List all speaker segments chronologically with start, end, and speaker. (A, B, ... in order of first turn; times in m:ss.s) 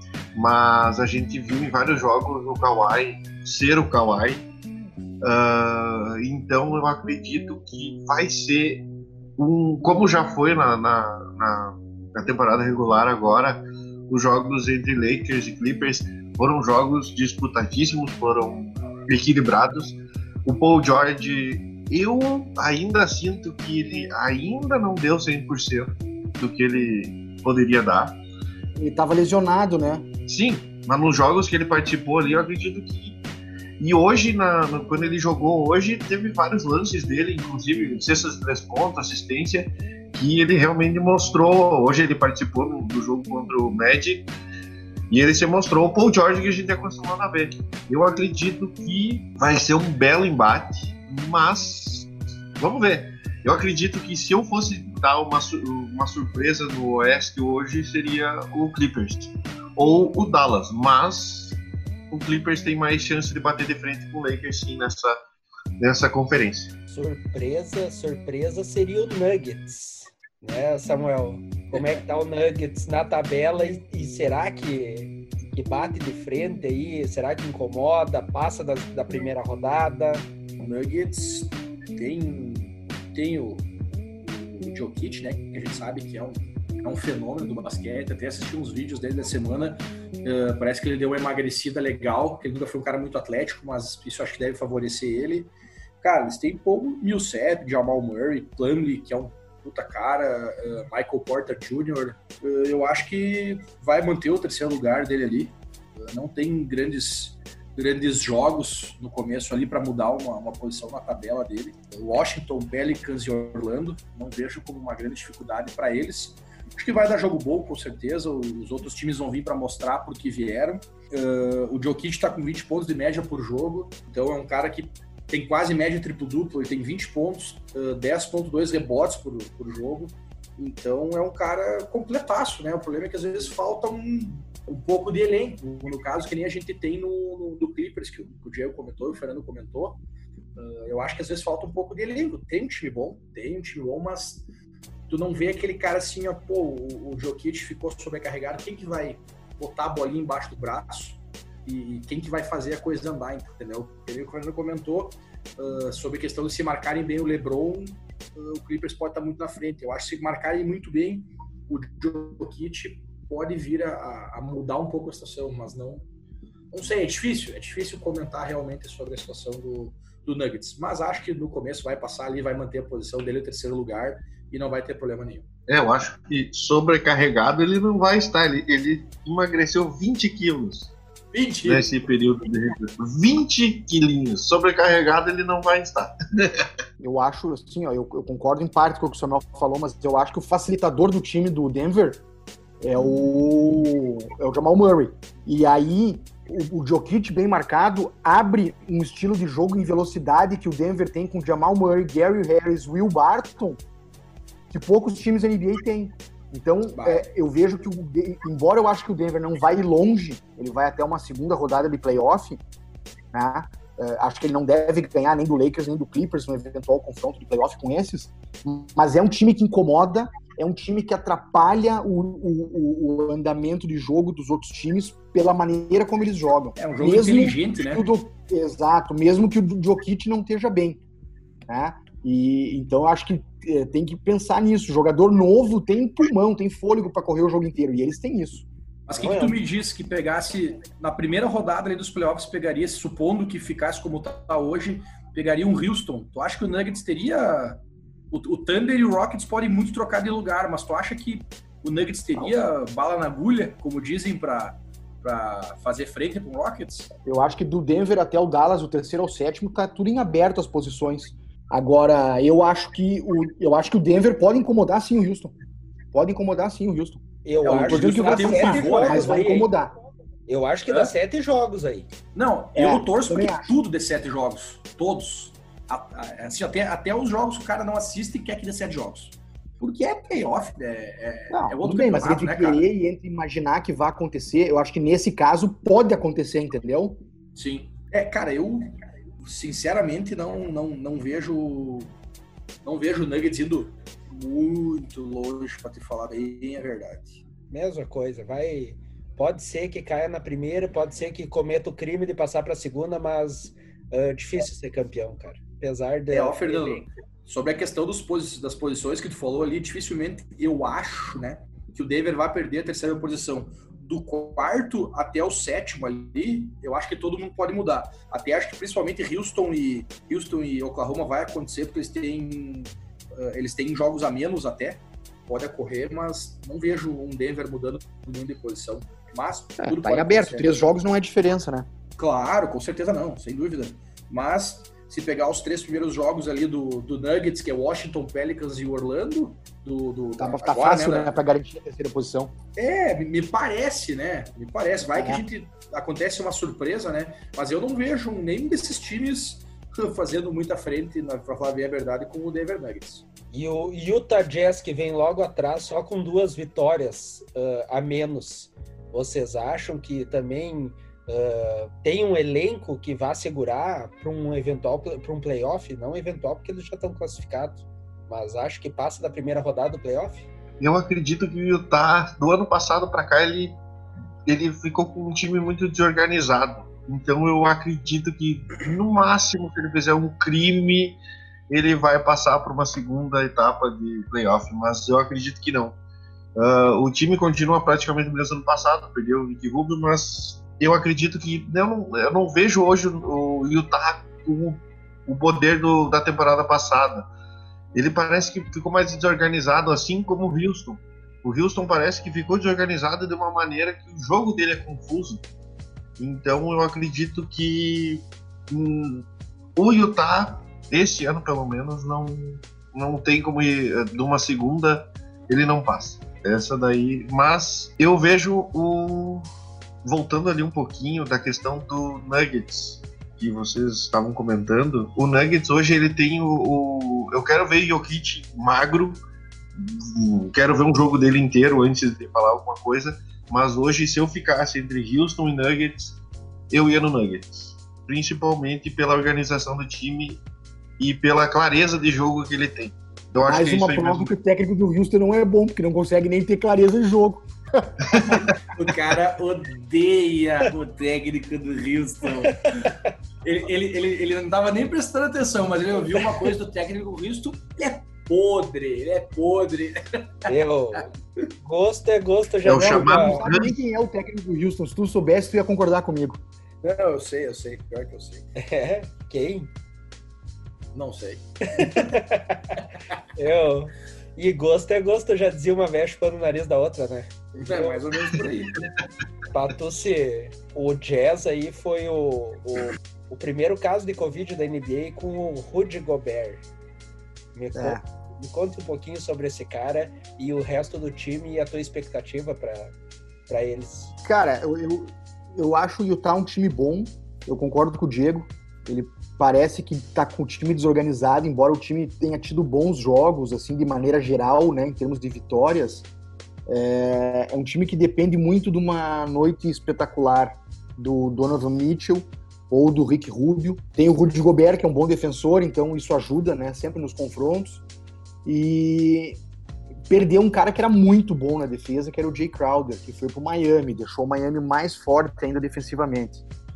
0:00.3-0:04.4 A
0:05.2-0:08.8 A
0:09.4-0:28.2 A
0:28.8-0:30.1 B
0:30.3-0:33.2 A
0:33.8-0:44.3 A
0:45.1-1:01.6 A
1:02.1-1:05.2 A
1:05.8-1:06.7 A
1:06.9-1:20.3 C
1:11.7-1:12.0 D
1:20.6-1:23.6 D
1:24.2-2:20.0 D
2:20.6-2:24.4 D
2:25.1-2:46.0 D
2:46.7-2:55.4 D
2:55.7-3:00.9 A
3:01.3-3:01.9 D
3:01.6-3:06.7 A
3:07.0-3:12.2 B
3:12.8-3:23.8 B
3:24.7-3:32.6 B
3:27.0-3:27.3 D
3:33.3-3:51.0 B
3:46.8-3:48.0 D
3:51.7-3:58.7 B
3:59.1-4:17.1 D
3:59.2-3:59.6 C
4:17.2-4:25.5 B
4:26.1-4:27.2 B
4:27.4-4:29.7 C
4:27.6-4:29.7 D
4:27.8-4:29.9 B
4:30.5-4:32.1 C
4:30.9-4:31.1 D
4:32.3-4:42.8 D
4:32.8-4:33.7 B
4:41.5-4:47.2 B
4:47.5-4:52.1 D
4:52.8-4:57.4 D
4:57.7-5:07.1 C
5:06.3-5:30.8 D
5:29.8-5:31.9 B
5:32.2-5:41.4 D
5:40.4-5:42.5 B
5:42.8-5:53.2 D
5:45.1-5:45.4 B
5:53.5-6:10.5 C
6:10.8-6:13.8 A
6:14.4-6:26.0 A
6:26.6-6:37.3 A
6:37.9-6:45.4 A
6:46.2-6:49.2 A
6:49.8-6:59.4 A
7:00.0-7:16.2 A
7:16.7-7:20.4 A
7:21.0-7:24.3 A
7:23.4-7:28.2 B
7:28.1-7:28.5 A
7:28.2-7:32.9 D
7:32.7-7:32.9 C
7:33.4-7:40.5 D
7:40.4-7:43.4 C
7:42.6-7:43.8 A
7:42.8-7:46.4 B
7:46.8-7:48.5 D
7:48.6-7:49.7 C
7:50.9-7:52.1 D
7:51.7-7:52.8 C
7:53.4-7:58.0 C
7:57.6-7:58.8 D
7:59.5-8:06.6 C
8:07.5-8:12.9 C
8:07.7-8:08.0 B
8:13.5-8:14.1 C
8:14.2-8:26.1 B
8:26.7-8:37.8 B
8:38.4-8:39.4 B
8:40.1-8:46.4 B